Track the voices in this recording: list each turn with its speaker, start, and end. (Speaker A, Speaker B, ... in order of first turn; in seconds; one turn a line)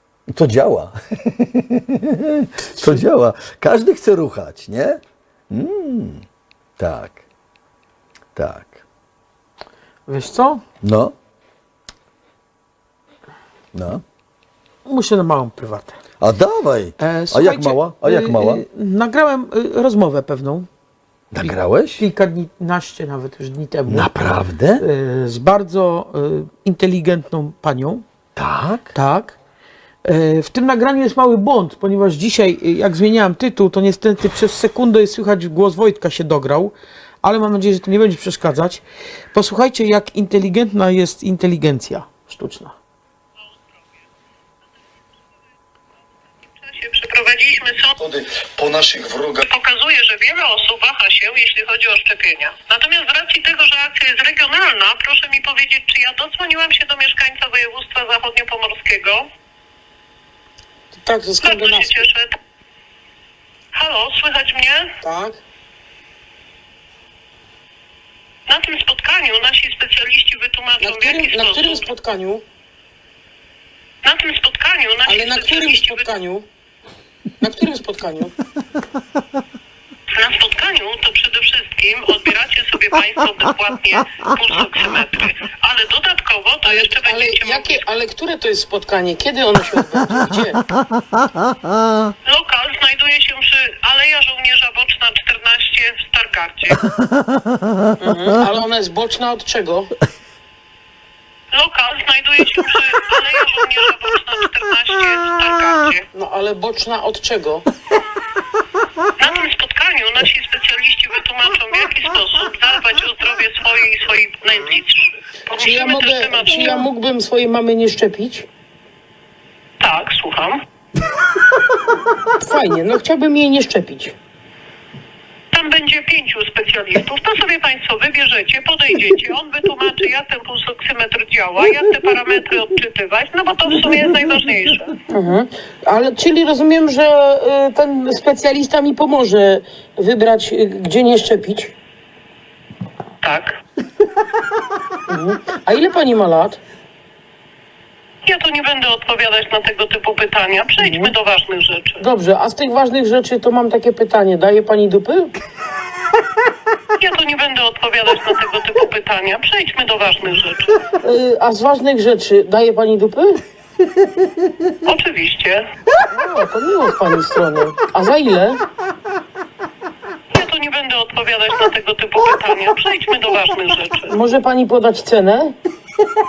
Speaker A: 0.3-6.2
Speaker A: 6.8-7.2
Speaker A: 8.3-8.8
Speaker B: 10.1-10.6
Speaker A: 10.8-11.1
Speaker A: 13.7-14.0
Speaker B: 14.8-16.0
Speaker A: 16.2-18.6
Speaker B: 17.0-20.7
Speaker A: 21.3-22.0
Speaker B: 22.0-28.0
Speaker A: 23.9-24.8
Speaker A: 28.4-28.9
Speaker B: 28.9-29.4
Speaker B: 30.0-42.8
Speaker C: 46.5-48.0
Speaker A: 48.0-49.4
Speaker C: 49.4-59.2
Speaker D: 60.9-62.0
Speaker C: 61.4-62.3
Speaker C: 63.7-64.9
Speaker D: 65.0-65.4
Speaker C: 68.5-71.9
Speaker D: 70.8-72.4
Speaker C: 74.0-76.1
Speaker D: 75.0-76.4
Speaker D: 77.4-78.3
Speaker C: 80.1-87.8
Speaker D: 86.7-90.6
Speaker C: 92.3-96.8
Speaker D: 98.0-99.9
Speaker C: 101.5-106.0
Speaker D: 106.1-107.7
Speaker C: 109.2-116.9
Speaker D: 115.6-118.5
Speaker C: 119.8-120.6
Speaker D: 122.4-124.1
Speaker C: 125.5-135.0
Speaker D: 135.1-141.7
Speaker C: 143.2-143.6
Speaker D: 145.1-146.6
Speaker C: 148.2-152.0
Speaker D: 150.8-151.1
Speaker D: 152.0-155.3
Speaker C: 157.0-160.7
Speaker D: 161.0-163.4
Speaker C: 164.8-165.6
Speaker D: 166.1-168.6
Speaker C: 170.3-174.2
Speaker D: 174.1-175.6